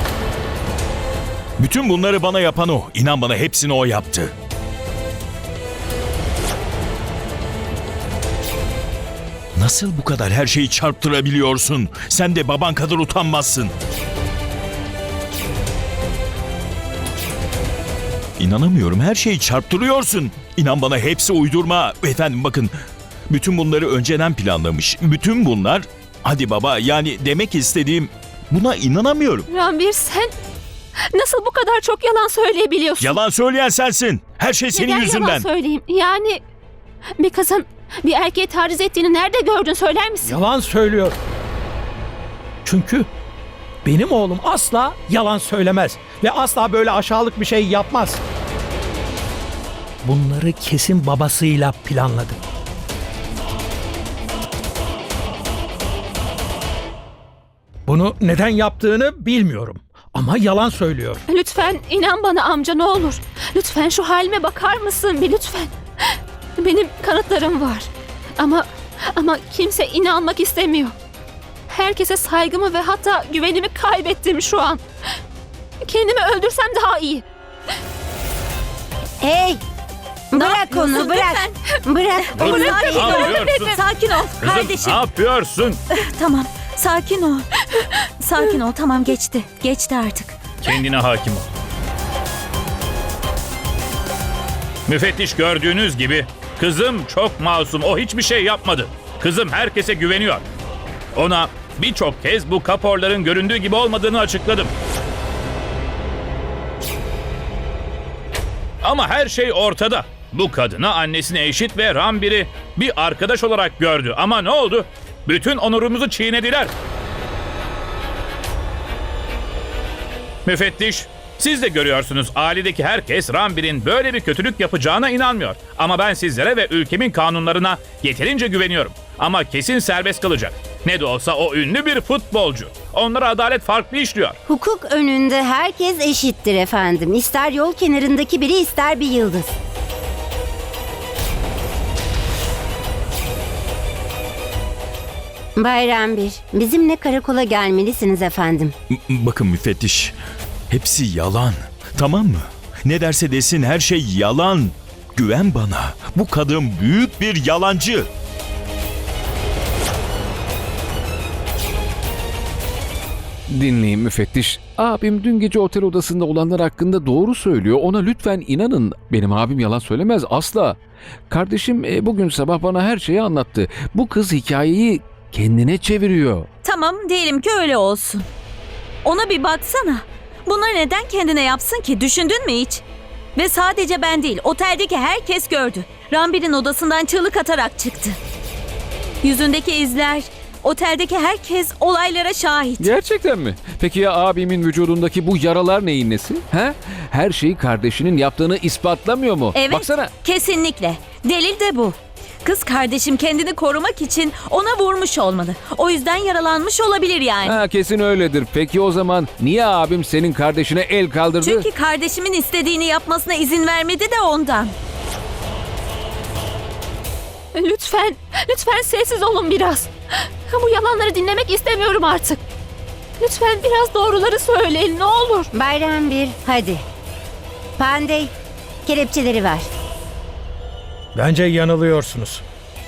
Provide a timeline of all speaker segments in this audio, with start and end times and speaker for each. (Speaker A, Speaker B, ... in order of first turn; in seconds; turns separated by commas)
Speaker A: 1.6-4.3, Speaker A: 9.6-13.7, Speaker A: 18.4-22.7, Speaker A: 23.3-29.5, Speaker B: 29.5-30.3, Speaker B: 31.1-33.1, Speaker A: 33.0-35.5, Speaker B: 34.7-36.4, Speaker B: 37.2-40.4, Speaker C: 40.2-41.2, Speaker C: 42.7-43.1, Speaker C: 43.9-48.2, Speaker C: 50.0-52.4, Speaker C: 57.9-61.2, Speaker B: 61.3-65.7, Speaker B: 66.6-71.0, Speaker B: 71.7-74.8, Speaker B: 75.8-77.2, Speaker D: 79.2-79.6, Speaker D: 80.3-83.2, Speaker B: 80.4-81.6, Speaker E: 82.4-83.7, Speaker F: 82.4-85.0, Speaker B: 82.5-83.8, Speaker E: 84.4-85.8, Speaker F: 85.9-90.4, Speaker E: 90.6-91.5, Speaker E: 94.9-100.4, Speaker E: 101.2-104.7, Speaker E: 108.8-116.7, Speaker E: 120.5-134.4, Speaker D: 134.5-139.5, Speaker D: 145.6-148.7, Speaker A: 148.9-150.1, Speaker A: 150.7-158.1, Speaker G: 163.5-170.8, Speaker G: 171.3-176.5, Speaker F: 176.7-178.3, Speaker F: 179.0-182.8, Speaker F: 183.4-188.2, Speaker F: 189.2-192.8, Speaker G: 192.8-200.2, Speaker F: 199.5-207.5, Speaker G: 207.4-211.7, Speaker F: 211.4-214.8, Speaker B: 217.6-219.9, Speaker B: 220.5-222.4, Speaker B: 223.2-225.5, Speaker D: 225.5-226.8, Speaker D: 227.8-228.3, Speaker D: 228.9-229.7, Speaker C: 231.2-232.4